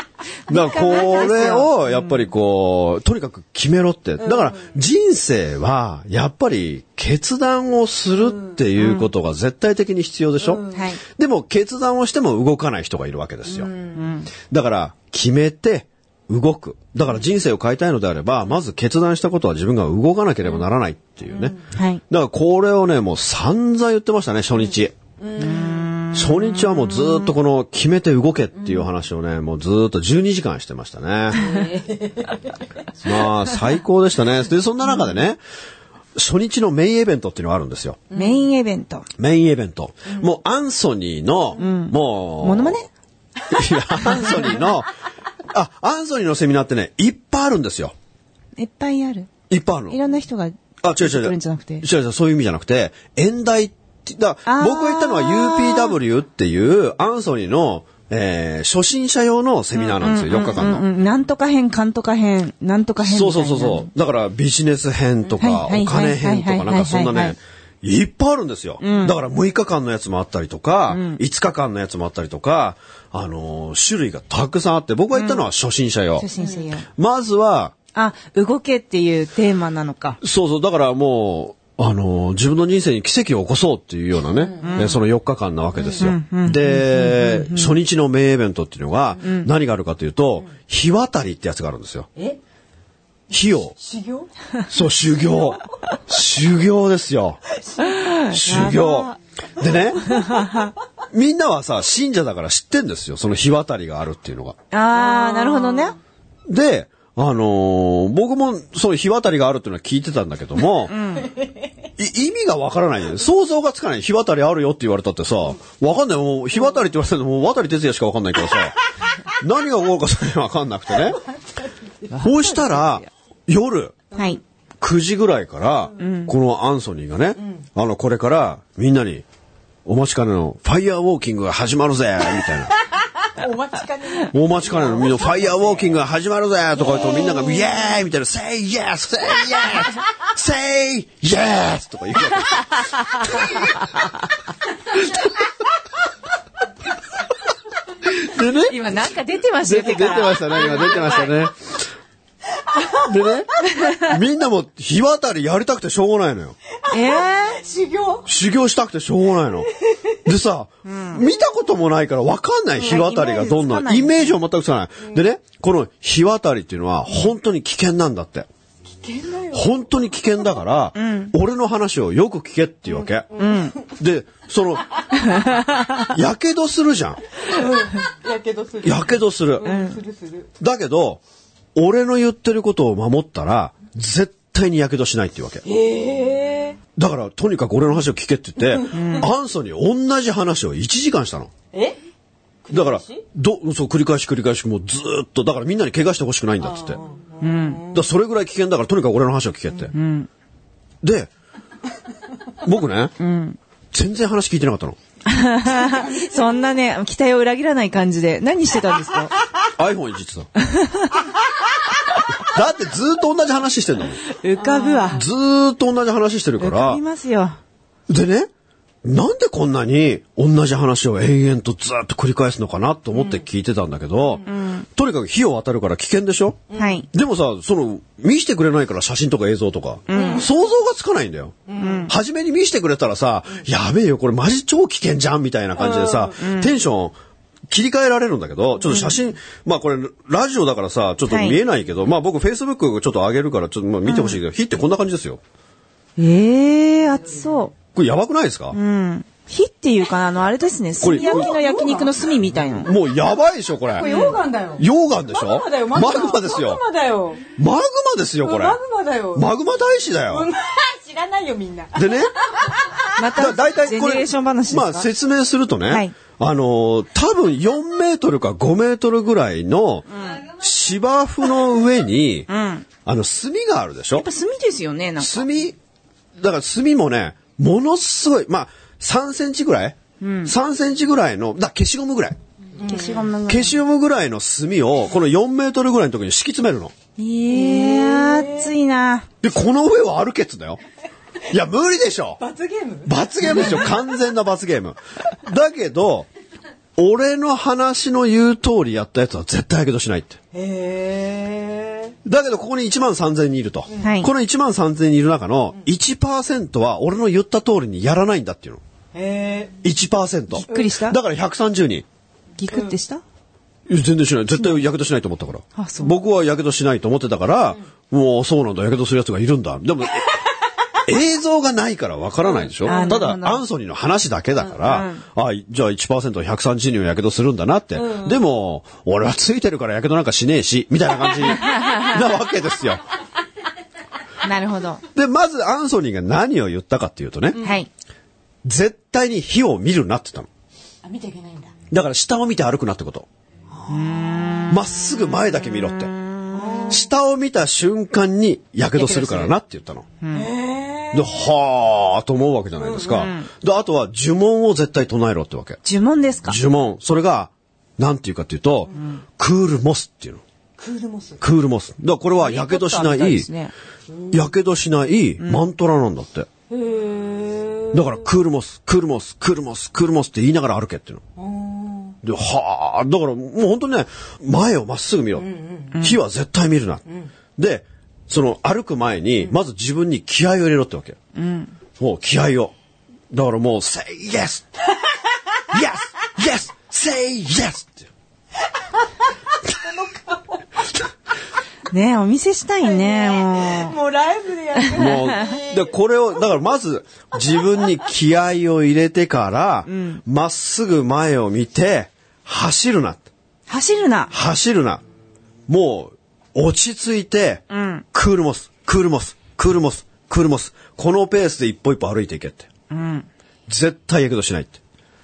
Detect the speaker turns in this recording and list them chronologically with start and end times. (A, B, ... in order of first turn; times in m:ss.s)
0:00.5-0:13.7 A
0:00.5-0:02.2 B
0:04.2-0:04.7 C
0:08.2-0:08.6 C
0:08.8-0:09.1 B
0:10.4-0:10.9 C
0:10.7-0:11.0 B
0:13.4-0:14.1 C
0:13.9-0:14.3 B
0:14.4-0:21.6 A
0:21.3-0:21.6 C
0:21.7-0:22.0 B
0:22.1-0:24.9 A
0:25.2-0:26.0 C
0:25.4-0:27.3 B
0:26.1-0:31.4 A
0:28.6-0:28.9 C
0:31.3-0:32.6 C
0:33.0-0:35.4 A
0:36.2-0:38.0 A
0:38.1-0:38.4 C
0:38.1-0:39.1 B
0:39.2-0:42.8 A
0:41.6-0:42.9 B
0:43.5-0:44.9 A
0:44.1-0:44.5 B
0:45.5-0:47.9 A
0:48.6-0:49.3 B
0:49.5-0:50.0 A
0:49.9-0:51.8 B
0:50.8-1:00.8 A
0:54.5-0:56.0 B
0:59.7-1:03.9 B
1:03.0-1:16.2 A
1:05.4-1:07.3 B
1:08.8-1:09.2 B
1:10.9-1:11.2 B
1:15.1-1:15.4 B
1:16.2-1:16.9 B
1:16.4-1:16.7 C
1:17.0-1:17.7 A
1:17.9-1:20.2 B
1:20.2-1:32.1 A
1:24.3-1:24.9 C
1:24.6-1:25.0 B
1:25.9-1:27.8 B
1:29.2-1:29.5 B
1:33.3-1:33.7 A
1:33.8-1:34.3 C
1:34.7-1:37.4 A
1:37.6-1:38.0 C
1:37.8-1:39.2 B
1:38.3-1:40.2 A
1:39.7-1:40.7 C
1:40.0-1:40.7 B
1:41.1-1:44.6 A
1:44.7-1:46.0 B
1:44.9-1:46.0 C
1:46.5-1:50.9 A
1:50.9-1:51.3 B
1:51.2-1:51.7 C
1:52.0-2:01.2 A
2:02.1-2:03.1 B
2:02.2-2:04.0 A
2:04.1-2:04.4 B
2:04.8-2:09.2 A
2:06.0-2:06.3 B
2:09.8-2:12.7 A
2:13.2-2:16.0 C
2:14.3-2:23.7 A
2:16.9-2:17.7 C
2:28.0-2:28.8 A
2:28.5-2:31.3 B
2:29.6-2:31.8 A
2:32.5-2:33.2 C
2:33.0-2:36.6 A
2:36.8-2:38.3 C
2:36.9-2:37.6 B
2:38.2-2:39.7 A
2:39.8-2:40.2 C
2:40.2-2:48.5 A
2:40.8-2:41.2 B
2:42.8-2:44.4 B
2:48.9-2:49.8 C
2:49.5-2:53.3 A
2:50.9-2:51.3 B
2:52.9-2:53.8 C
2:53.4-2:53.8 B
2:53.9-2:54.9 A
2:55.2-2:56.0 B
2:56.1-2:57.2 A
2:57.4-3:00.5 C
2:58.8-2:59.7 A
2:59.6-3:00.0 B
3:00.6-3:01.2 A
3:01.7-3:05.6 A
3:05.6-3:06.8 C
3:07.0-3:11.5 A
3:08.6-3:09.3 C
3:08.9-3:09.3 B
3:11.7-3:12.0 C
3:12.6-3:13.2 C
3:12.7-3:17.0 A
3:16.6-3:18.1 C
3:17.4-3:17.9 B
3:17.9-3:19.9 A
3:19.9-3:20.3 B
3:21.0-3:21.3 A
3:22.6-3:23.2 A
3:23.2-3:23.6 B
3:23.9-3:25.0 A
3:25.2-3:29.3 B
3:25.7-3:26.6 C
3:29.8-3:30.5 A
3:30.6-3:31.2 B
3:32.3-3:34.2 A
3:34.3-3:35.2 B
3:34.6-3:35.2 C
3:35.1-3:37.0 A
3:36.6-3:37.6 B
3:38.1-3:38.5 A
3:39.0-3:46.6 A
3:43.1-3:43.4 C
3:44.4-3:44.8 B
3:46.7-3:47.0 C
3:46.8-3:47.1 B
3:47.1-3:57.2 A
3:50.1-3:50.4 B
3:50.1-3:50.5 C
3:51.7-3:52.1 C
3:51.8-3:52.1 B
3:55.8-3:56.4 C
3:56.4-3:56.7 B
3:57.7-4:05.4 A
3:58.9-3:59.2 B
4:01.3-4:01.6 B
4:04.0-4:04.4 B
4:06.2-4:07.7 B
4:07.9-4:08.8 A
4:08.7-4:12.9 B
4:11.0-4:11.5 A
4:11.1-4:12.8 C
4:12.8-4:14.1 A
4:13.9-4:17.4 C
4:14.0-4:14.4 B
4:14.8-4:16.8 A
4:17.6-4:18.8 A
4:18.4-4:19.5 C
4:19.3-4:20.5 A
4:20.1-4:23.2 C
4:21.9-4:22.3 A
4:23.2-4:25.1 B
4:23.4-4:32.5 A
4:32.5-4:32.8 B
4:33.0-4:34.3 A
4:34.2-4:35.5 B
4:35.2-4:35.8 A
4:36.4-4:42.4 A
4:40.2-4:40.5 B
4:42.8-4:43.3 C
4:42.8-4:43.8 B
4:43.5-4:46.9 A
4:47.2-4:49.3 B
4:47.5-4:48.7 C
4:49.4-4:50.8 A
4:51.5-4:52.4 A
4:52.4-4:54.0 C
4:53.0-4:56.3 A
4:57.0-5:00.4 A
5:00.5-5:02.1 C
5:02.2-5:08.8 A
5:03.9-5:04.2 C
5:04.0-5:04.3 B
5:09.1-5:09.8 C
5:09.8-5:12.0 A
5:10.5-5:11.2 B
5:10.7-5:11.0 C
5:12.6-5:13.2 B
5:12.7-5:13.0 C
5:13.9-5:20.4 A
5:15.8-5:16.1 B
5:21.0-5:33.0 A
5:22.4-5:23.3 C
5:22.8-5:23.6 B
5:24.8-5:25.2 B
5:27.9-5:28.4 C
5:31.6-5:32.1 B
5:34.4-5:35.0 B
5:35.1-5:37.6 A
5:37.5-5:37.8 C
5:37.6-5:37.9 B
5:38.6-5:40.5 A
5:41.0-5:41.7 C
5:41.9-5:43.3 A
5:43.7-5:44.6 C
5:43.9-5:44.9 B
5:44.7-5:46.1 A
5:45.6-5:46.9 B
5:46.5-5:47.1 C
5:46.9-5:50.0 A
5:49.0-5:49.5 B
5:50.2-5:50.5 B
5:50.3-5:51.3 C
5:51.1-5:55.8 A
5:52.8-5:53.3 C
5:53.1-5:53.5 B
5:55.8-5:56.6 B
5:56.5-6:00.4 A
6:00.8-6:01.4 C
6:01.4-6:03.5 A
6:02.4-6:03.7 B
6:04.1-6:04.4 C
6:04.3-6:06.5 A
6:06.7-6:08.2 C
6:07.9-6:11.2 A
6:11.4-6:12.2 C
6:12.2-6:17.0 A
6:15.4-6:16.0 C
6:17.6-6:21.2 A
6:21.3-6:21.7 B
6:22.0-6:22.7 A
6:23.3-6:24.7 A
6:25.7-6:28.1 A
6:29.6-6:30.6 C
6:31.9-6:34.0 B
6:32.8-6:35.9 C
6:34.9-6:35.2 B
6:34.9-6:43.2 A
6:39.9-6:40.2 B
6:43.7-6:44.3 B
6:44.3-6:45.0 A
6:45.7-6:52.7 A
6:47.7-6:48.0 B
6:52.9-6:53.3 B
6:53.7-6:54.8 A